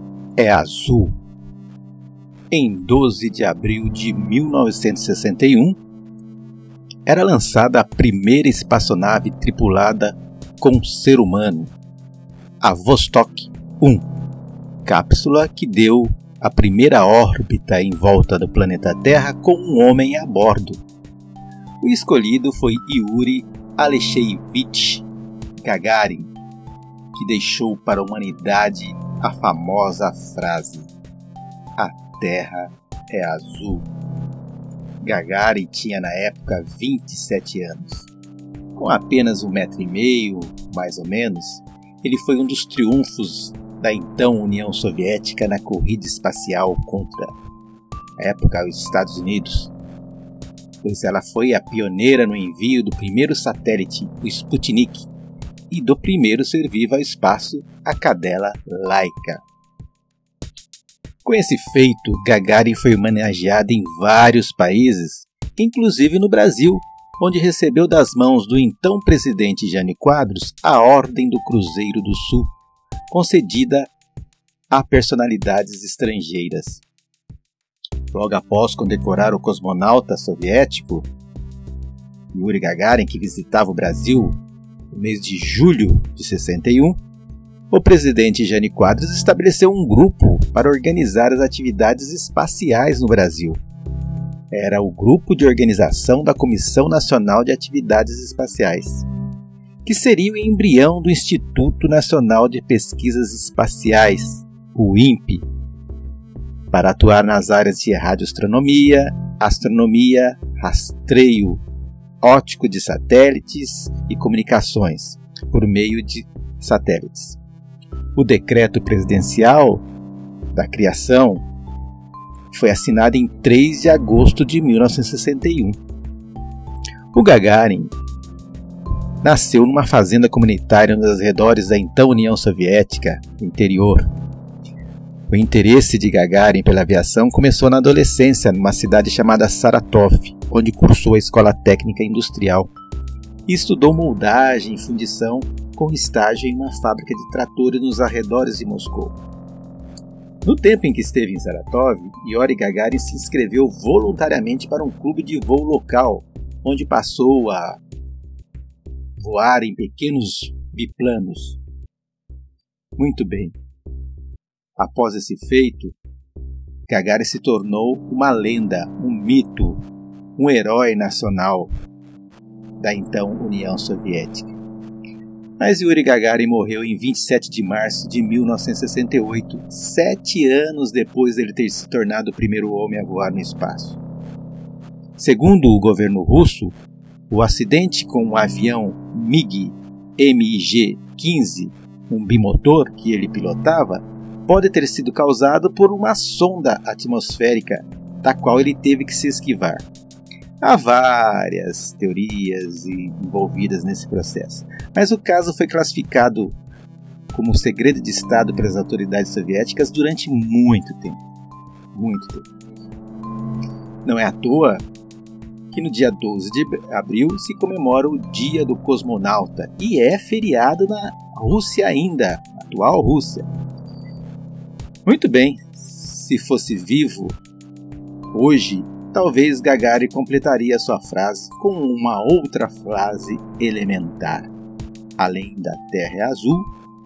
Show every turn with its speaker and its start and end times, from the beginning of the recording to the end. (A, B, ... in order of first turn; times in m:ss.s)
0:00.4-0:01.1 A
0:02.5-0:05.8 A
0:07.0-0:11.7 A
0:12.6-0:14.0 A
0:14.9-0:20.8 A
0:21.8-0:25.1 A
0:25.6-0:26.3 A
0:27.1-0:30.9 A
0:31.8-0:33.9 A
0:35.0-0:38.1 A
0:38.8-0:47.3 A
0:48.2-0:49.7 A
0:50.8-0:55.1 A
0:55.7-0:59.4 A
1:01.2-1:12.5 A
1:13.1-1:13.9 A
1:14.7-1:16.8 A
1:18.1-1:21.1 A
1:22.3-1:24.4 A
1:24.9-1:27.0 A
1:27.7-1:33.6 A
1:34.5-1:39.0 A
1:39.8-1:45.4 A
1:46.7-1:51.6 A
1:52.2-1:57.4 A
1:58.2-1:59.8 A
2:00.5-2:01.4 A
2:02.5-2:05.8 A
2:07.1-2:07.9 A
2:09.2-2:14.1 A
2:15.3-2:22.7 A
2:23.5-2:29.2 A
2:30.4-2:37.8 A
2:39.2-2:41.6 A
2:43.0-2:43.6 A
2:44.8-2:46.0 A
2:46.9-2:49.8 A
2:50.4-2:51.7 A
2:52.8-2:54.6 A
2:55.6-3:04.0 A
3:05.2-3:06.8 A
3:07.3-3:19.8 A
3:20.6-3:26.6 A
3:27.3-3:31.2 A
3:31.9-3:32.5 A
3:34.0-3:34.8 A
3:35.7-3:43.5 A
3:45.1-3:47.4 A
3:48.3-3:54.5 A
3:55.2-3:56.7 A